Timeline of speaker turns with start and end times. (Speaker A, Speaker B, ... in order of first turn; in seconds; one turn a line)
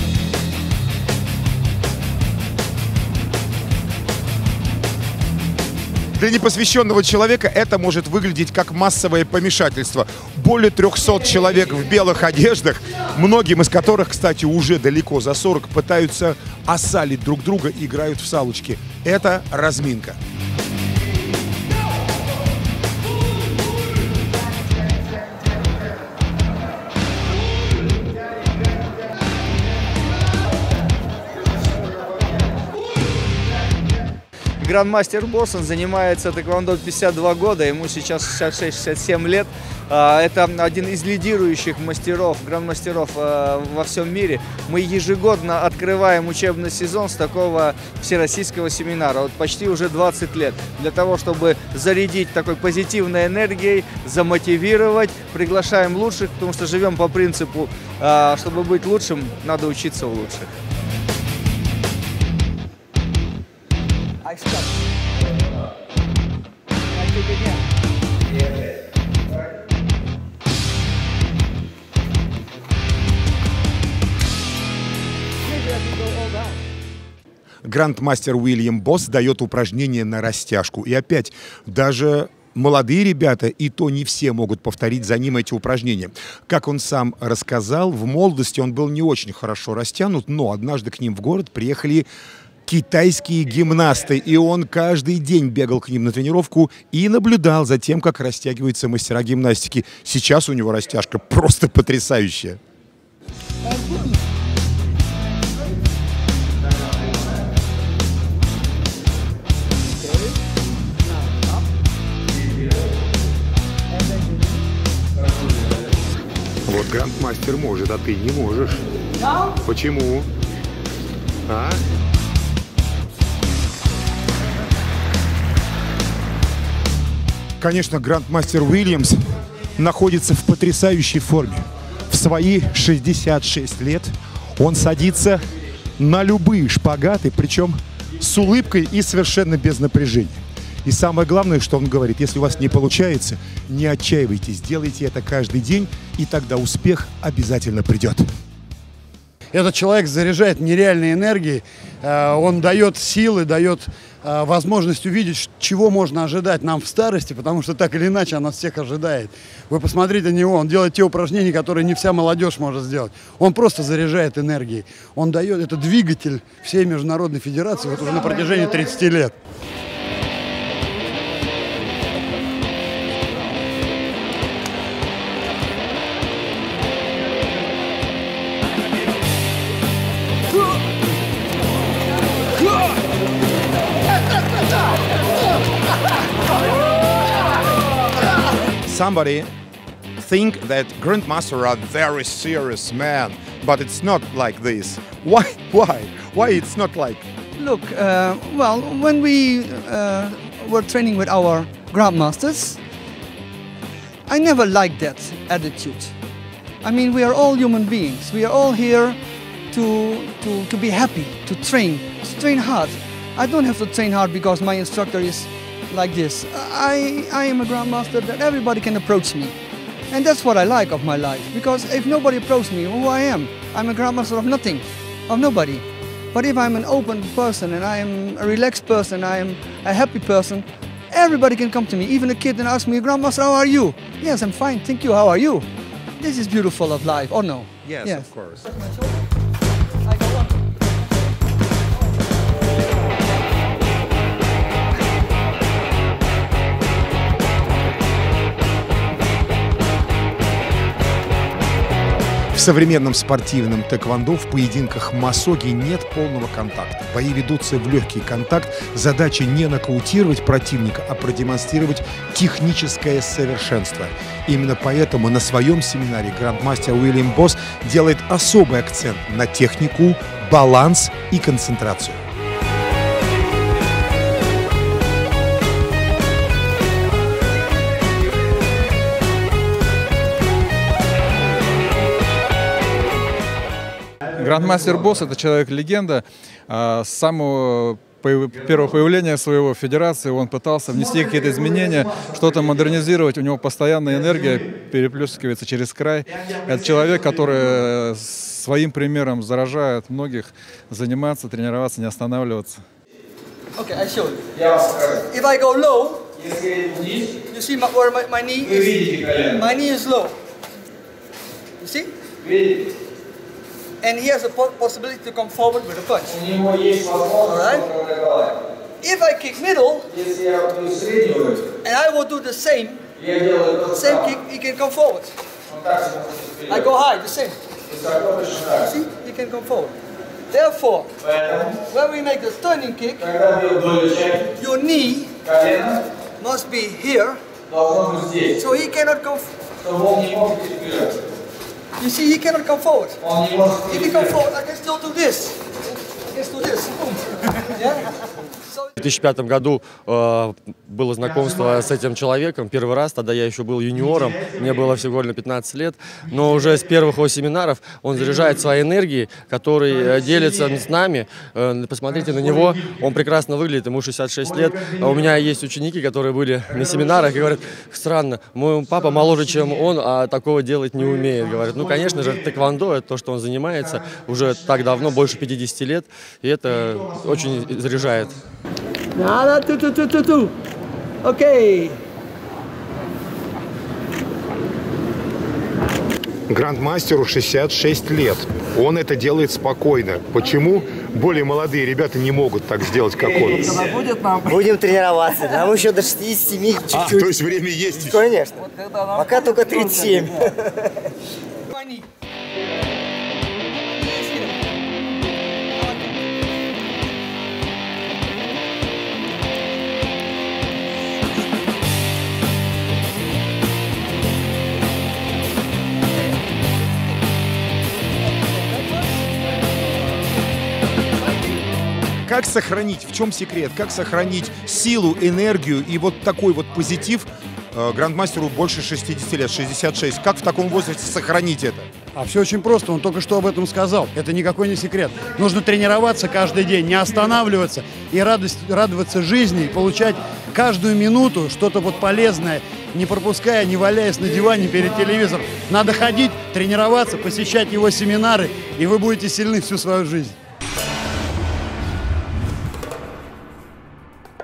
Speaker A: 6.1-20.2
Speaker B: 34.6-60.5
Speaker C: 64.2-64.7
Speaker C: 66.9-67.6
Speaker C: 75.5-76.5
Speaker A: 77.6-92.1
Speaker A: 92.7-102.6
Speaker A: 116.7-118.9
Speaker A: 119.5-120.3
Speaker A: 121.5-121.8
Speaker A: 127.6-129.2
Speaker A: 129.8-135.4
Speaker A: 136.0-148.2
Speaker D: 149.5-169.3
Speaker A: 188.8-189.5
Speaker A: 190.2-197.2
Speaker C: 197.6-202.8
Speaker C: 204.3-206.1
Speaker C: 206.8-209.2
Speaker C: 209.7-219.6
Speaker C: 220.1-235.7
Speaker C: 236.2-239.2
Speaker A: 237.8-238.6
Speaker C: 240.1-240.6
Speaker A: 252.5-272.2
Speaker E: 284.3-302.8
Speaker C: 303.7-304.5
Speaker B: 304.5-305.2
Speaker C: 305.2-306.3
Speaker B: 306.4-307.4
Speaker C: 307.4-310.3
Speaker B: 308.7-309.6
Speaker C: 311.8-312.1
Speaker B: 312.4-312.8
Speaker C: 314.0-316.4
Speaker B: 316.3-318.6
Speaker C: 317.5-317.9
Speaker C: 319.0-320.1
Speaker B: 320.1-321.7
Speaker C: 321.8-323.1
Speaker B: 323.2-324.2
Speaker C: 323.9-325.3
Speaker B: 325.7-326.8
Speaker C: 326.7-327.6
Speaker B: 327.9-328.9
Speaker C: 328.8-329.9
Speaker C: 330.5-331.1
Speaker B: 331.2-331.8
Speaker C: 331.8-333.4
Speaker B: 333.2-334.4
Speaker C: 334.5-335.5
Speaker B: 335.4-336.0
Speaker C: 336.4-337.4
Speaker B: 337.7-338.5
Speaker C: 338.5-339.6
Speaker B: 339.8-341.1
Speaker C: 342.0-343.2
Speaker B: 343.2-344.0
Speaker C: 343.8-348.0
Speaker F: 349.0-378.4
Speaker C: 379.1-380.5
Speaker C: 381.2-382.0
Speaker A: 386.5-393.8
Speaker G: 393.6-400.8
Speaker A: 396.9-398.3
Speaker C: 401.7-402.1
Speaker C: 403.7-404.7
Speaker C: 405.7-406.3
Speaker A: 422.2-431.9
Speaker D: 432.1-450.3